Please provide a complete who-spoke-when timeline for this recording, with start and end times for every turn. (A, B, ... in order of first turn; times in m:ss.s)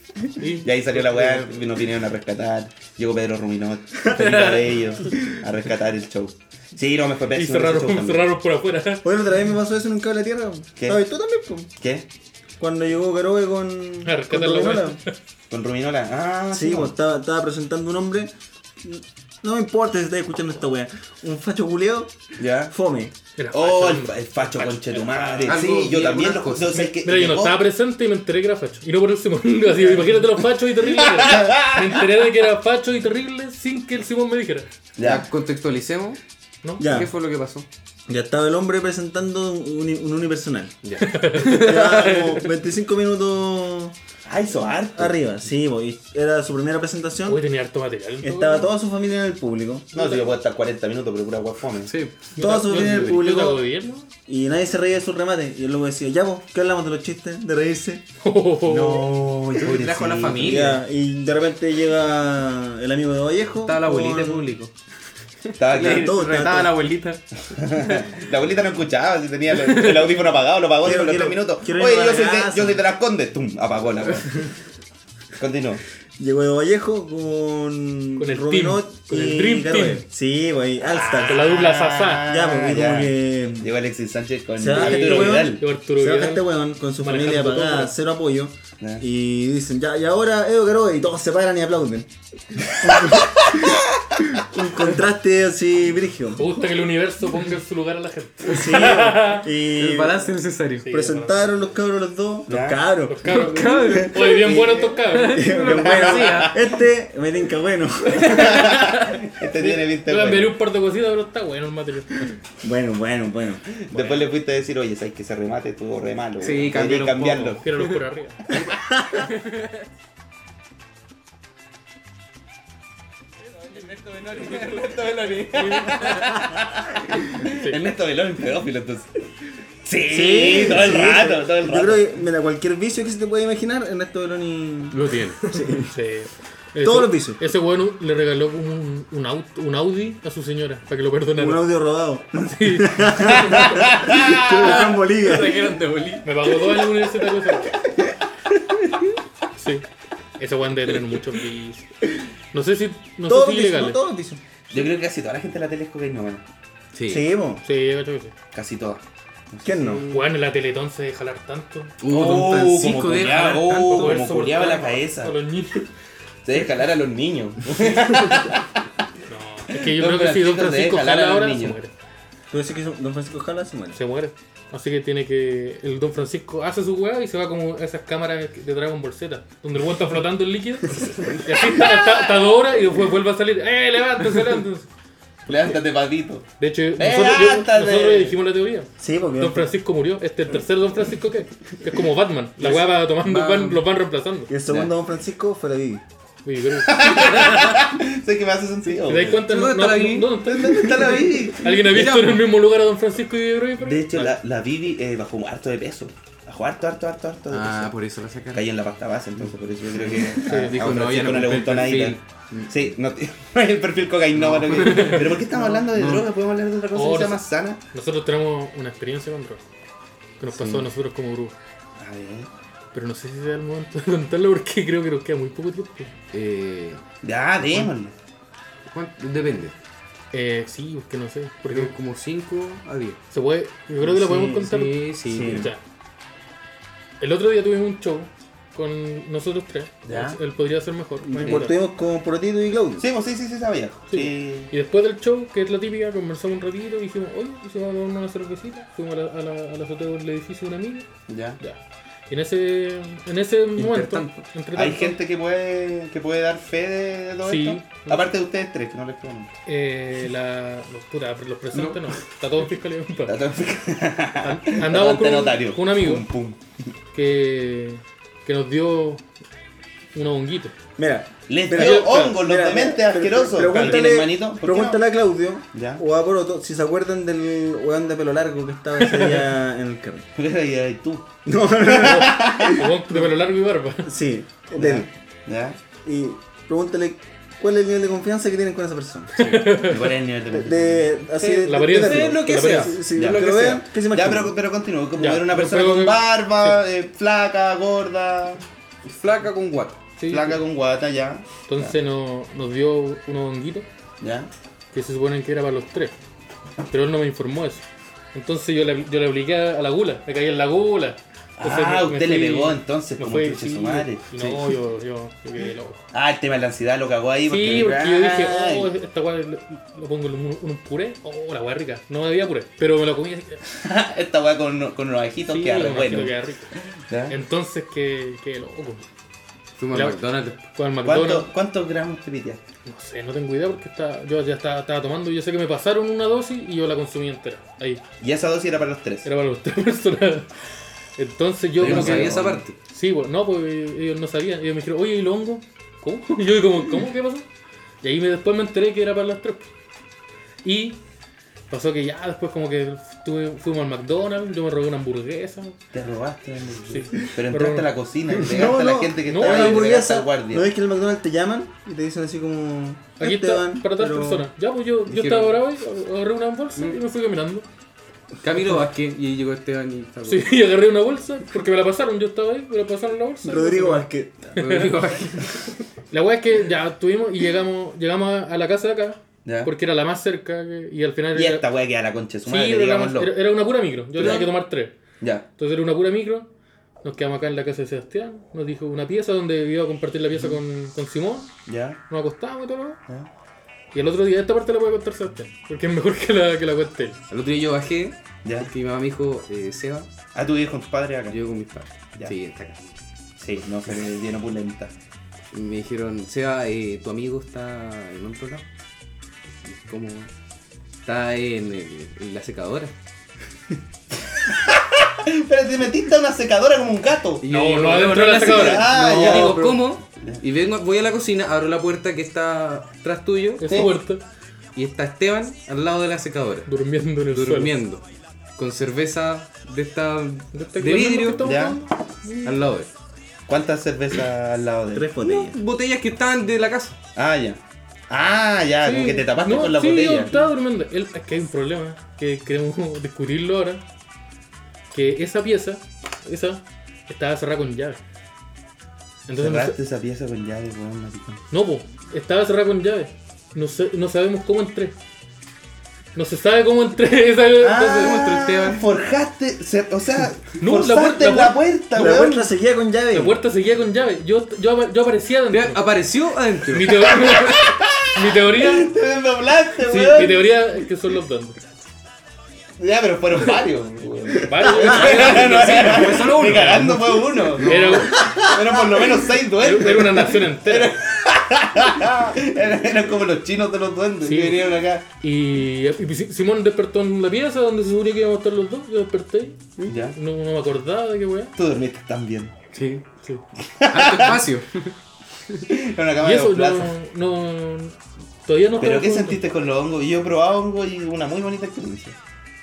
0:00.4-0:01.6 A
0:00.6-0:08.3 B
0:04.1-0:04.7 C
0:07.3-0:09.1 A
0:09.0-0:11.7 D
0:10.8-0:11.0 B
0:11.8-0:12.1 B
0:12.6-0:15.0 D
0:14.0-0:15.1 A
0:15.5-0:16.9 B
0:16.5-0:18.3 D
0:18.8-0:22.1 D
0:22.4-0:22.7 B
0:22.7-0:23.1 D
0:23.4-0:25.6 A
0:23.5-0:27.6 B
0:25.4-0:26.9 C
0:27.0-0:34.7 A
0:31.0-0:32.0 B
0:35.0-0:35.3 B
0:35.0-0:36.2 C
0:36.6-0:36.9 A
0:36.8-0:37.1 D
0:36.8-0:37.6 C
0:38.1-0:40.7 D
0:40.8-0:42.5 C
0:41.0-0:41.7 A
0:41.4-0:43.9 D
0:44.2-0:45.2 B
0:44.9-0:47.4 D
0:47.3-0:48.7 A
0:48.2-0:49.9 D
0:49.9-0:51.9 B
0:50.0-0:50.3 A
0:51.9-0:53.2 C
0:52.4-0:54.1 A
0:52.4-0:53.6 D
0:54.3-0:58.0 D
0:58.2-0:59.1 A
0:58.6-1:00.7 B
0:59.6-1:00.8 C
1:00.4-1:04.5 D
1:03.6-1:04.7 C
1:05.4-1:08.1 C
1:05.6-1:06.2 B
1:05.8-1:06.8 D
1:07.5-1:14.5 B
1:09.5-1:10.2 C
1:10.8-1:12.8 D
1:15.4-1:15.8 B
1:16.2-1:21.4 D
1:18.2-1:20.0 A
1:20.8-1:25.6 B
1:21.2-1:22.3 A
1:22.2-1:23.7 D
1:24.6-1:36.5 D
1:24.7-1:26.4 A
1:27.0-1:27.9 A
1:33.0-1:33.7 B
1:36.4-1:39.5 A
1:38.4-1:40.2 D
1:39.7-1:40.9 C
1:40.8-1:41.5 A
1:40.9-1:48.7 D
1:42.5-1:42.8 B
1:43.0-1:45.5 A
1:43.2-1:46.6 C
1:45.7-1:46.6 B
1:48.1-1:49.2 C
1:48.2-1:50.5 B
1:49.5-1:52.4 A
1:52.6-1:53.6 D
1:53.7-1:57.6 B
1:53.9-1:54.3 A
1:56.4-1:58.0 C
1:57.6-1:58.6 A
1:58.7-1:59.2 D
1:59.2-1:59.7 C
2:03.6-2:09.2 B
2:05.6-2:05.9 A
2:07.3-2:07.8 A
2:09.8-2:12.1 B
2:10.1-2:15.9 D
2:14.9-2:15.5 C
2:15.9-2:21.7 A
2:16.8-2:17.4 D
2:21.4-2:25.7 D
2:22.4-2:23.8 A
2:23.5-2:24.7 B
2:24.3-2:26.3 C
2:26.2-2:27.8 A
2:29.6-2:29.9 A
2:30.4-2:31.9 A
2:32.5-2:34.0 A
2:33.3-2:34.8 D
2:34.7-2:36.4 B
2:36.9-2:37.2 C
2:37.1-2:37.6 D
2:37.6-2:38.4 A
2:38.5-2:40.0 B
2:39.6-2:40.0 D
2:40.0-2:41.9 A
2:42.0-2:44.3 C
2:42.1-2:45.4 B
2:43.9-2:45.9 A
2:46.4-2:48.9 B
2:49.3-2:51.9 A
2:49.7-2:51.8 B
2:52.5-2:54.0 D
2:53.9-3:04.9 A
3:05.4-3:08.4 B
3:06.6-3:14.5 A
3:09.0-3:09.7 D
3:12.6-3:13.8 C
3:14.5-3:16.0 D
3:16.4-3:17.5 A
3:16.9-3:19.4 B
3:17.4-3:17.8 C
3:19.0-3:24.4 A
3:19.2-3:20.4 C
3:20.4-3:21.7 B
3:21.7-3:22.5 C
3:23.8-3:27.9 B
3:27.5-3:28.7 C
3:28.5-3:37.8 B
3:29.9-3:32.7 C
3:30.4-3:30.8 A
3:34.3-3:36.3 C
3:34.9-3:35.2 A
3:36.9-3:39.6 A
3:40.4-3:41.6 A
3:40.5-3:40.8 C
3:42.0-3:42.5 B
3:42.9-3:46.1 A
3:46.3-3:47.0 C
3:47.2-3:48.1 B
3:48.9-3:49.7 C
3:50.3-3:51.9 A
3:51.7-3:53.2 C
3:53.3-3:55.8 A
3:54.0-3:54.7 D
3:54.4-3:55.7 C
3:55.2-3:55.7 D
3:57.2-4:01.8 A
4:00.0-4:00.4 B
4:01.2-4:03.0 D
4:03.0-4:04.7 B
4:04.1-4:11.1 A
4:11.3-4:11.6 B
4:11.6-4:15.2 A
4:13.8-4:14.4 C
4:14.7-4:19.5 B
4:17.4-4:18.3 A
4:19.6-4:23.4 A
4:21.7-4:22.1 C
4:23.3-4:26.6 B
4:24.4-4:26.3 A
4:27.1-4:29.2 A
4:30.1-4:30.8 A
4:31.0-4:40.2 D
4:31.5-4:35.0 B
4:31.7-4:32.4 A
4:33.7-4:34.0 A
4:35.7-4:36.0 B
4:39.0-4:39.4 A
4:40.4-4:41.3 B
4:41.4-4:42.9 D
4:41.9-4:42.8 B
4:41.9-4:44.1 A
4:44.0-4:45.1 D
4:44.7-4:45.8 B
4:46.0-4:49.5 D
4:49.4-4:50.2 A
4:49.4-4:49.6 C
4:49.7-4:51.1 B
4:50.5-4:54.6 D
4:51.4-4:53.8 C
4:51.6-4:53.0 A
4:53.1-4:58.6 B
4:55.2-4:56.8 A
4:59.0-5:00.0 C
5:00.2-5:00.6 A
5:00.3-5:01.9 B
5:01.7-5:03.9 A
5:04.2-5:04.5 B
5:04.9-5:06.1 A
5:06.9-5:16.0 A
5:11.6-5:14.2 B
5:16.1-5:18.9 B
5:17.4-5:23.6 A
5:23.8-5:26.4 B
5:25.5-5:26.7 A
5:27.1-5:27.4 B
5:27.3-5:29.0 A
5:29.8-5:30.6 C
5:29.9-5:31.5 A
5:31.0-5:32.6 B
5:32.8-5:38.0 A
5:38.2-5:39.3 B
5:39.2-5:40.5 A
5:41.2-5:47.5 A
5:41.8-5:42.8 C
5:41.8-5:42.6 B
5:48.0-5:49.7 A
5:50.6-5:51.0 A
5:51.7-5:55.8 A
5:55.9-6:00.6 B
5:56.9-5:57.9 A
5:58.3-6:04.5 D
5:59.2-5:59.9 A
6:03.2-6:07.6 A
6:05.0-6:05.6 C
6:08.4-6:10.6 C
6:10.2-6:15.0 A
6:13.4-6:14.6 D
6:14.6-6:15.8 C
6:16.1-6:21.7 A
6:19.4-6:19.7 B
6:21.3-6:23.3 B
6:22.4-6:25.0 A
6:24.2-6:24.6 B
6:25.2-6:25.4 B
6:25.6-6:26.5 A
6:27.0-6:31.5 A
6:31.7-6:32.0 B
6:32.1-6:33.0 A
6:33.9-6:37.2 A
6:37.3-6:40.1 C
6:38.4-6:38.7 B
6:40.4-6:41.4 B
6:41.3-6:42.9 C
6:43.4-6:44.9 B
6:45.5-6:48.6 C
6:49.6-6:50.3 C
6:51.0-6:52.9 C
6:54.5-6:57.4 B
6:57.4-7:03.9 C
6:57.4-6:59.0 A
6:58.3-7:00.4 B
6:59.1-6:59.6 D
7:03.6-7:04.2 A
7:03.6-7:03.9 B
7:04.7-7:06.7 C
7:06.7-7:07.7 A
7:07.3-7:08.0 C
7:08.6-7:11.6 C
7:10.5-7:12.6 A
7:11.4-7:11.8 B
7:12.4-7:12.9 C
7:13.5-7:15.1 B
7:14.9-7:15.6 D
7:15.2-7:17.0 C
7:17.1-7:20.4 B
7:18.8-7:23.8 A
7:24.9-7:28.0 A
7:29.3-7:29.8 A
7:29.4-7:31.4 B
7:31.5-7:35.0 A
7:36.1-7:38.3 A
7:37.6-7:42.5 B
7:37.9-7:38.8 C
7:40.6-7:42.2 A
7:41.9-7:43.4 D
7:43.1-7:45.8 A
7:45.5-7:47.2 C
7:46.7-7:48.9 A
7:47.1-7:50.5 B
7:49.8-7:51.6 A
7:52.8-8:05.0 B
7:54.3-7:56.9 A
7:54.8-7:58.2 C
7:57.6-7:58.3 A
7:59.6-8:00.9 A
8:04.2-8:04.6 A
8:05.2-8:11.5 A
8:09.9-8:10.2 B
8:11.6-8:12.5 B
8:12.7-8:13.0 C
8:13.8-8:14.4 B
8:13.9-8:14.9 C
8:15.7-8:16.9 B
8:16.2-8:19.6 A
8:18.8-8:22.2 B